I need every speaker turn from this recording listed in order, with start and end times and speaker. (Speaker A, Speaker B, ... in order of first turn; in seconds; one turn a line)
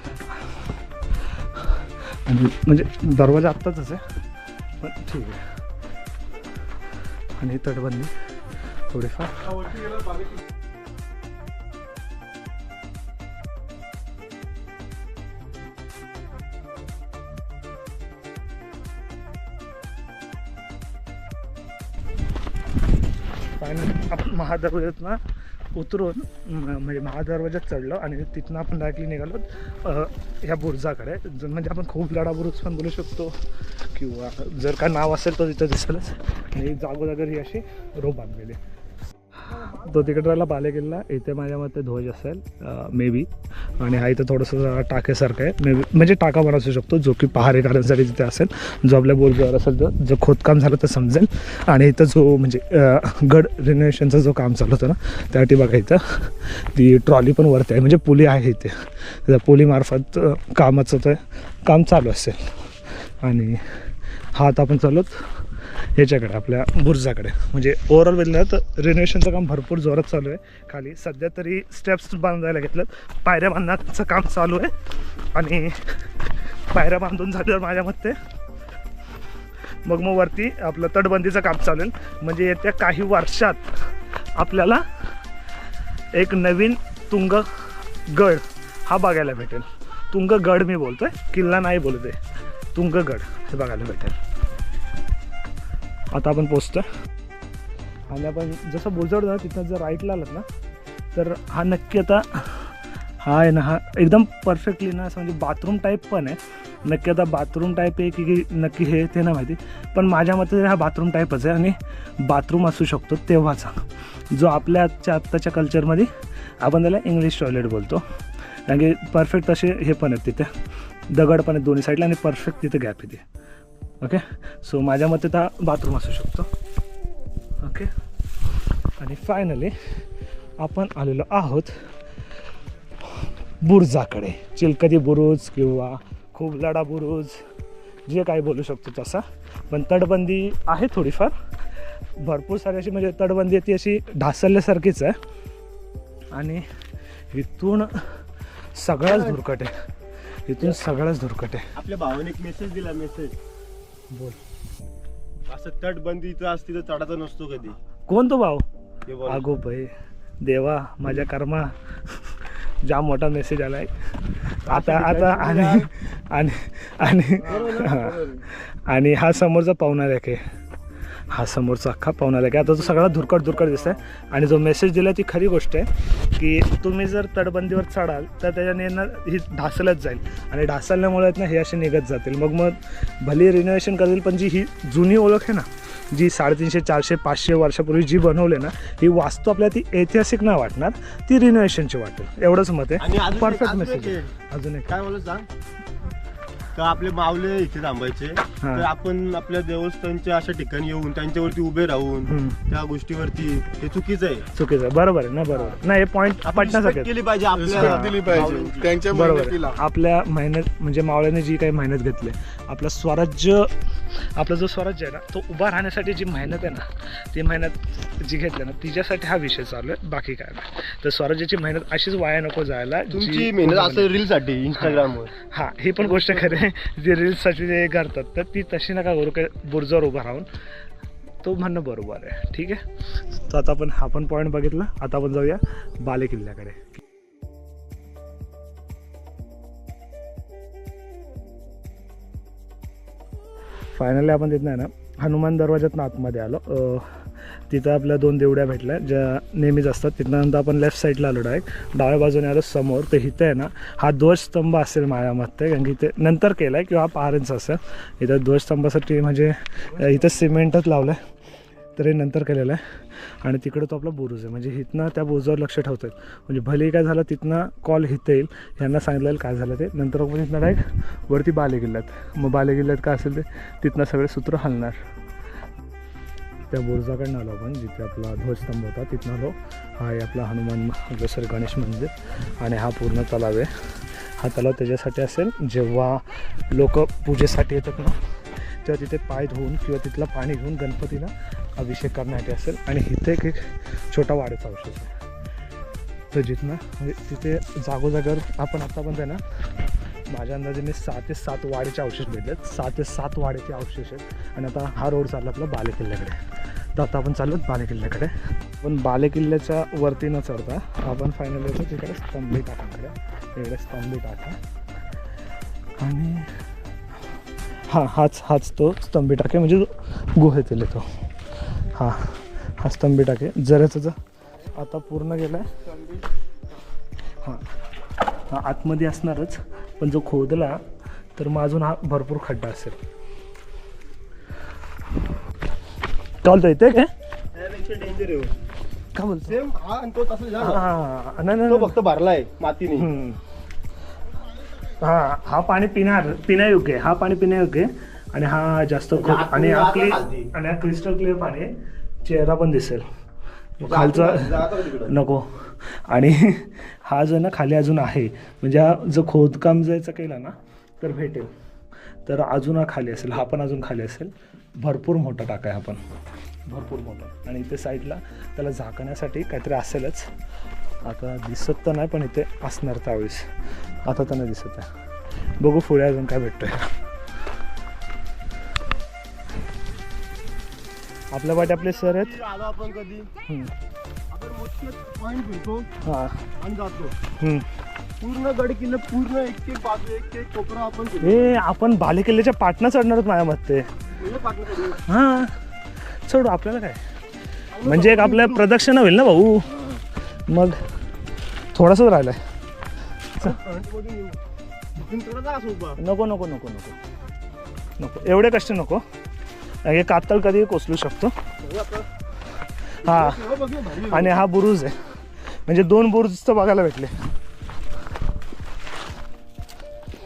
Speaker A: 1.6-4.0
Speaker A: 4.8-5.5
Speaker A: 7.4-8.1
Speaker A: 8.9-9.8
Speaker A: 23.6-25.2
Speaker A: 25.8-33.4
Speaker A: 33.9-38.6
Speaker A: 39.4-74.7
Speaker B: 39.6-40.1
Speaker A: 75.3-76.1
Speaker A: 76.7-78.2
Speaker A: 79.8-84.9
Speaker A: 86.1-92.2
Speaker A: 92.8-94.2
Speaker A: 96.1-96.9
Speaker A: 98.1-100.5
Speaker A: 101.1-120.5
Speaker A: 121.1-123.2
Speaker A: 124.0-126.5
Speaker A: 127.6-127.9
Speaker A: 129.0-129.8
Speaker A: 130.6-131.7
Speaker A: 133.0-137.4
Speaker A: 138.1-141.3
Speaker A: 142.2-145.2
Speaker A: 146.3-146.7
Speaker A: 147.3-148.2
Speaker A: 148.8-149.8
Speaker B: 149.1-149.4
Speaker A: 150.5-151.7
Speaker B: 151.8-153.4
Speaker A: 154.1-154.4
Speaker B: 155.5-157.8
Speaker A: 158.1-158.6
Speaker B: 159.1-159.4
Speaker A: 159.2-170.4
Speaker B: 164.7-165.9
Speaker B: 167.4-168.3
Speaker C: 167.5-168.3
Speaker A: 171.3-195.0
Speaker B: 172.8-174.0
Speaker B: 193.0-194.3
Speaker B: 194.9-195.5
Speaker B: 196.8-204.5
Speaker A: 198.6-198.9
Speaker A: 202.3-202.6
Speaker A: 204.5-207.1
Speaker B: 205.5-205.8
Speaker B: 206.4-208.9
Speaker C: 207.5-209.8
Speaker A: 207.7-208.1
Speaker A: 209.1-224.1
Speaker B: 223.1-225.3
Speaker A: 224.8-230.5
Speaker B: 226.0-226.6
Speaker A: 231.4-232.9
Speaker A: 233.4-237.0
Speaker A: 243.9-261.2
Speaker A: 262.0-275.0
Speaker A: 276.7-295.1
Speaker A: 296.3-299.4
Speaker A: 300.3-306.4
Speaker A: 306.9-314.6
Speaker A: 316.0-316.6
Speaker A: 317.9-321.1
Speaker A: 321.8-324.2
Speaker A: 324.7-325.7
Speaker A: 327.4-327.7
Speaker A: 328.3-333.0
Speaker A: 336.4-337.1
Speaker B: 337.5-338.5
Speaker A: 339.1-339.6
Speaker B: 339.5-340.9
Speaker A: 340.6-341.9
Speaker B: 341.7-343.1
Speaker A: 343.0-343.4
Speaker A: 345.0-353.1
Speaker B: 349.1-350.5
Speaker A: 353.8-361.5
Speaker B: 353.8-355.1
Speaker A: 362.2-366.0
Speaker A: 366.7-370.3
Speaker A: 371.0-374.9
Speaker A: 375.6-377.0
Speaker A: 381.3-382.4
Speaker B: 381.5-383.3
Speaker A: 383.5-383.7
Speaker B: 384.3-385.9
Speaker A: 386.0-386.4
Speaker B: 386.6-387.2
Speaker A: 387.4-387.7
Speaker B: 388.2-391.6
Speaker A: 391.2-393.9
Speaker B: 394.2-395.0
Speaker A: 395.1-395.6
Speaker A: 396.2-397.0
Speaker B: 397.7-398.6
Speaker A: 397.8-400.8
Speaker A: 401.7-402.4
Speaker B: 403.4-404.4
Speaker B: 404.9-406.0
Speaker A: 406.0-407.0
Speaker A: 408.0-409.0
Speaker A: 409.8-411.4
Speaker B: 411.6-412.1
Speaker A: 413.0-413.4
Speaker B: 413.0-414.4
Speaker A: 414.0-415.0
Speaker A: 415.5-417.1